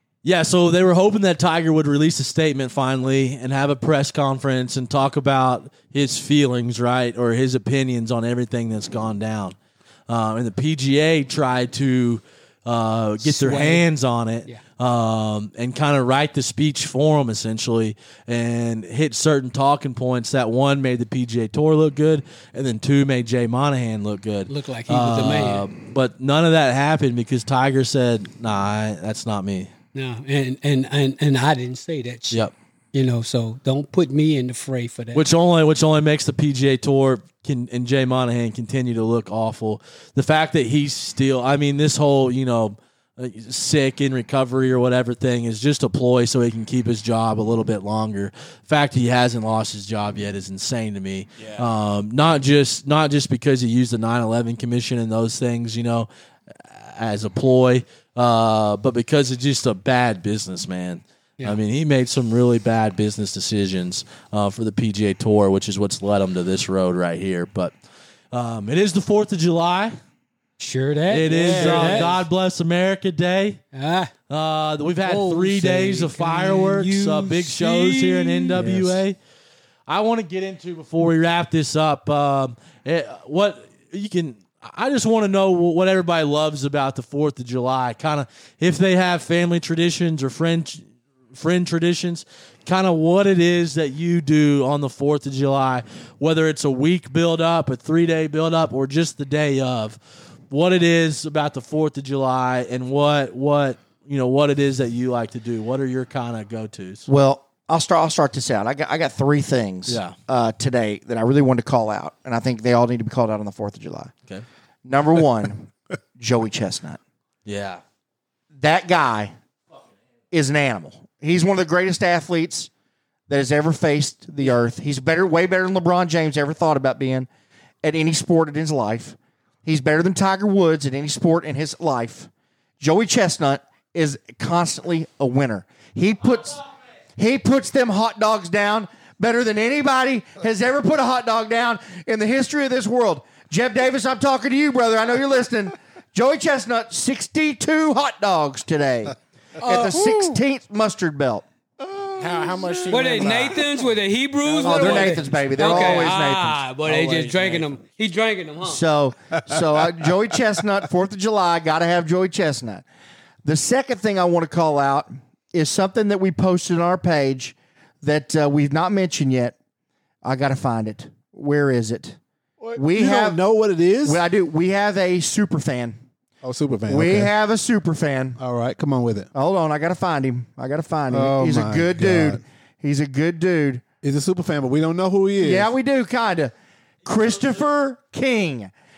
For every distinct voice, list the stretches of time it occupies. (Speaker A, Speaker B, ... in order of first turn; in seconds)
Speaker A: 0.2-9.6, 10.1-29.7, 35.1-67.8, 68.3-70.0, 71.1-73.6, 74.3-79.2, 79.9-100.0, 100.5-107.0, 109.9-110.2, 117.5-117.8
Speaker B: 13.2-13.8, 24.5-25.6, 29.9-32.4, 32.9-35.2, 70.6-72.1, 73.7-74.1, 75.0-78.7, 152.9-158.8
Speaker C: 51.4-51.7, 71.3-72.2, 152.2-153.7, 154.5-155.7, 156.8-157.8
Speaker D: 78.5-78.8, 107.1-114.1, 114.8-117.0, 118.6-119.3, 120.3-122.7, 123.3-127.3, 127.8-136.6, 137.2-151.4, 154.6-156.6, 158.6-162.8, 163.4-169.5, 170.2-172.2, 172.7-173.4, 174.0-176.0, 176.9-178.4, 179.3-183.8, 185.4-186.5, 187.0-188.7
Speaker E: 172.6-174.2, 176.4-177.3, 178.4-179.3, 181.1-182.4, 184.0-185.7